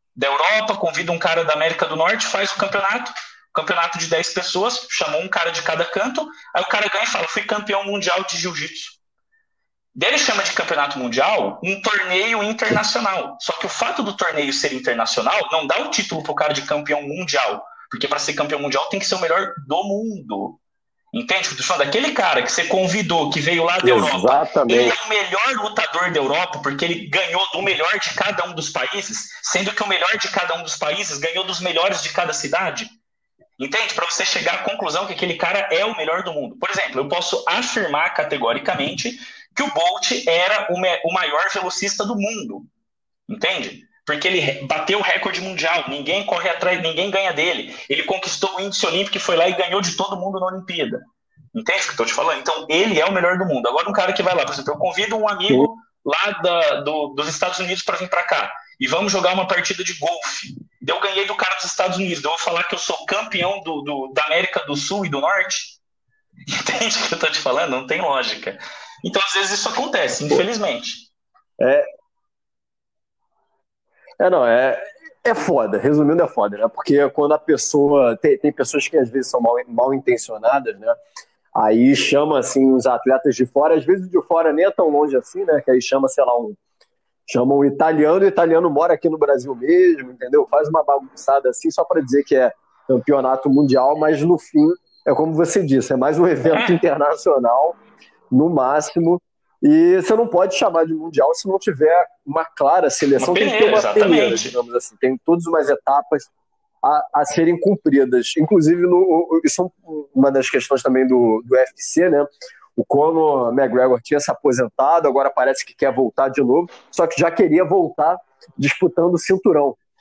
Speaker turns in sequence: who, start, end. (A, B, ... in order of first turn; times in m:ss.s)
0:00.2-0:09.0 A
0:09.9-0:20.6 A
0:21.1-0:32.9 A
0:23.8-0:24.9 B
0:33.6-0:42.7 A
0:43.3-1:05.8 A
1:06.5-1:11.1 A
1:14.2-1:21.0 B
1:21.5-1:26.6 B
1:27.3-1:37.8 B
1:36.4-1:36.8 A
1:38.3-1:46.3 B
1:43.2-1:44.6 A
1:46.8-1:59.8 B